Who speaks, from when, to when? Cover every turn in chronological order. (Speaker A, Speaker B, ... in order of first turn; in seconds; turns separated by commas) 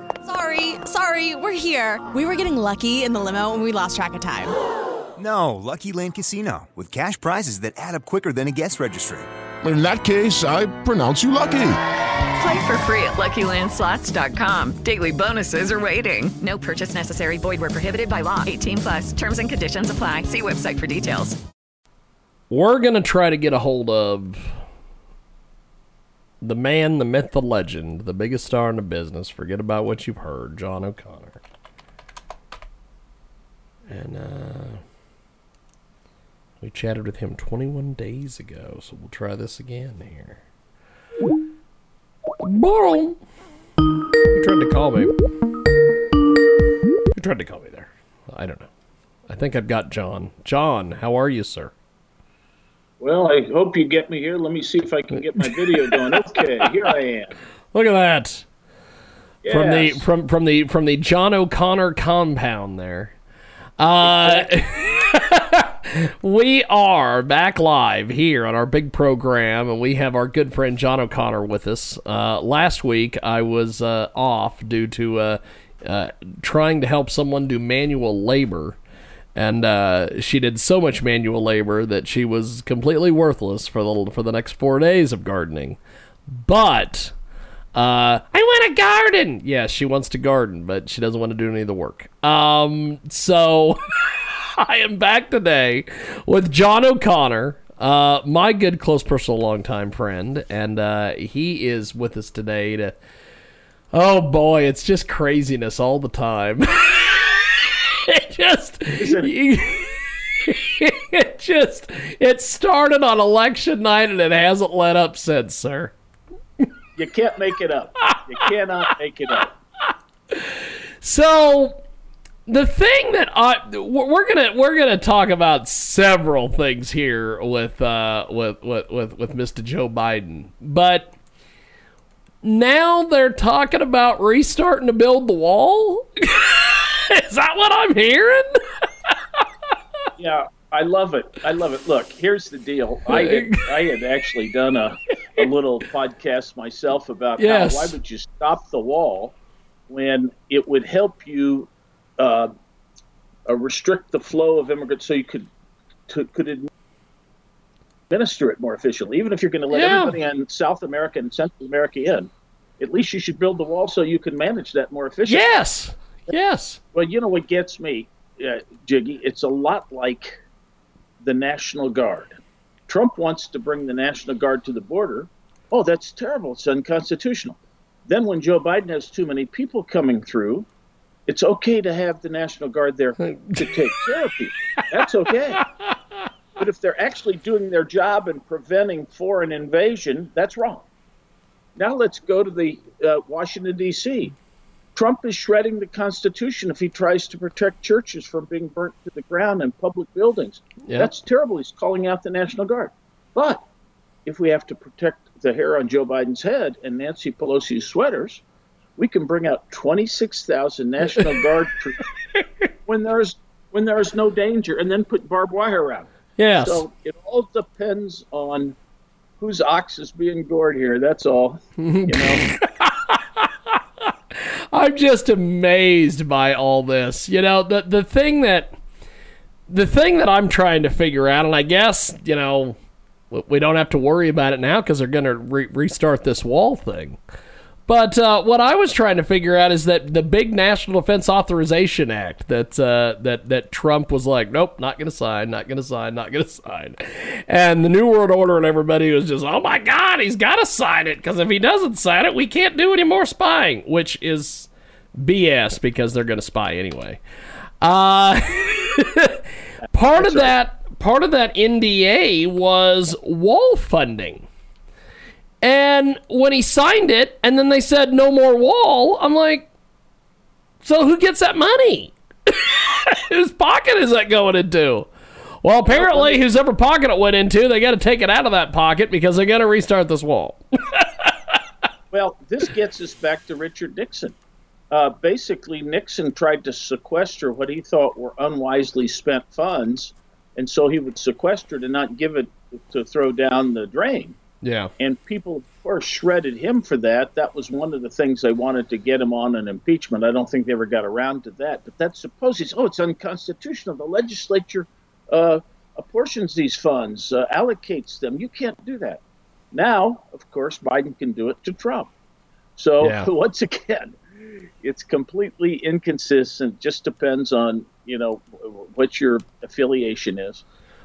Speaker A: 0.2-4.5, Speaker B: 5.2-9.3, Speaker C: 9.6-11.8, Speaker D: 12.4-21.4, Speaker E: 22.5-24.6, Speaker E: 26.4-31.4, Speaker E: 33.9-34.8, Speaker E: 36.6-40.4, Speaker E: 42.4-43.2, Speaker E: 44.3-45.1, Speaker E: 47.1-48.7, Speaker E: 49.3-51.7, Speaker F: 53.0-57.4, Speaker E: 55.4-56.7, Speaker E: 57.7-58.5, Speaker F: 59.4-60.0, Speaker E: 59.5-63.1, Speaker E: 63.8-78.8, Speaker F: 64.0-64.6, Speaker E: 79.3-87.1, Speaker E: 87.7-102.9, Speaker E: 103.9-115.9, Speaker F: 109.0-109.3, Speaker F: 117.0-119.5, Speaker E: 120.3-121.8, Speaker E: 122.5-131.1, Speaker E: 132.4-139.7, Speaker F: 140.2-149.3, Speaker E: 143.1-143.6, Speaker E: 147.4-148.0, Speaker F: 149.9-152.5, Speaker F: 153.5-155.5, Speaker F: 156.1-156.7, Speaker F: 158.1-165.6, Speaker E: 159.7-160.2, Speaker E: 165.3-166.8, Speaker F: 166.9-170.3, Speaker F: 171.2-180.7, Speaker F: 181.3-185.6, Speaker E: 183.3-183.9, Speaker E: 185.6-186.2, Speaker F: 186.6-190.8, Speaker F: 191.8-194.3, Speaker F: 194.9-203.6, Speaker F: 204.2-208.4, Speaker F: 209.0-212.0, Speaker F: 212.9-218.8, Speaker E: 216.4-216.8, Speaker F: 219.4-222.4, Speaker E: 221.8-228.8, Speaker E: 229.7-232.8, Speaker E: 233.3-237.2, Speaker E: 237.9-257.2, Speaker E: 257.8-264.4, Speaker F: 260.1-260.5, Speaker E: 265.6-269.7, Speaker E: 270.8-275.1, Speaker E: 275.6-281.6, Speaker F: 275.9-276.4, Speaker F: 282.1-284.4, Speaker F: 284.9-294.4, Speaker E: 294.6-294.9, Speaker F: 295.0-309.2, Speaker F: 309.7-312.1, Speaker F: 312.8-320.6, Speaker E: 313.0-313.3